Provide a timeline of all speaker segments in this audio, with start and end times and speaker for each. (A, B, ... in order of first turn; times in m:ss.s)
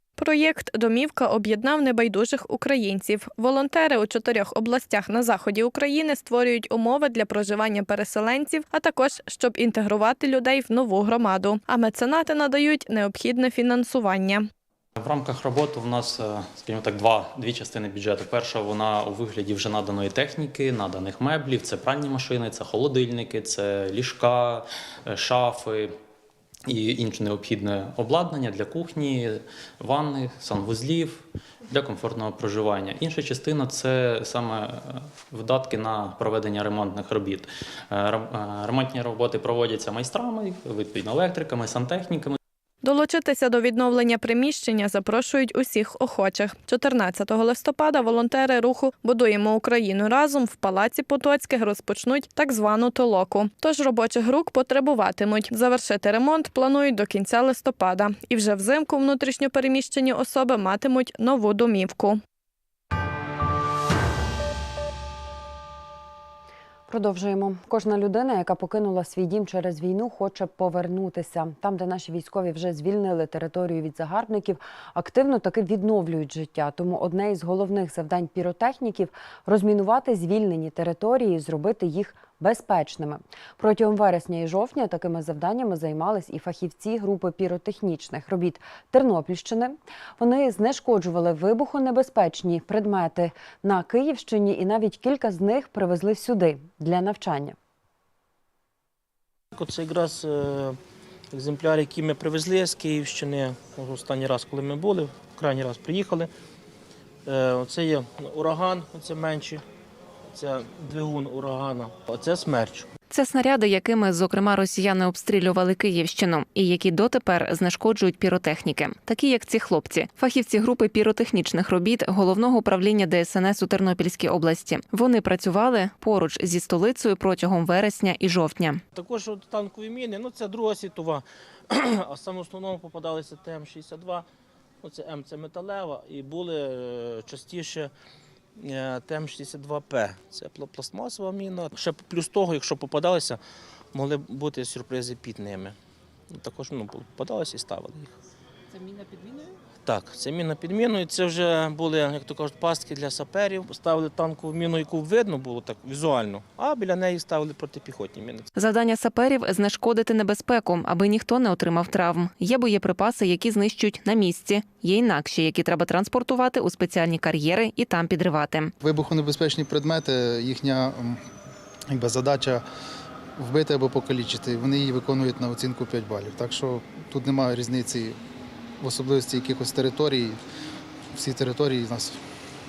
0:00.2-0:14.4 A
0:15.0-0:25.9 B
0:26.7-0:42.4 B
0:42.8-1:02.2 A
1:06.9-1:37.6 C
1:39.5-1:40.8 D
1:41.3-1:46.3 D
1:47.2-1:49.6 D
1:50.3-1:52.9 D
1:53.1-2:08.8 E
2:08.9-2:14.2 D
2:14.8-2:17.9 D
2:18.6-2:23.4 D
2:23.9-2:25.7 D
2:26.3-2:28.2 D
2:28.7-2:38.5 D
2:38.6-2:48.7 E
2:48.8-2:51.2 F
2:51.9-2:52.6 F
2:53.4-2:58.2 F
2:58.8-3:00.4 F
3:01.1-3:02.2 F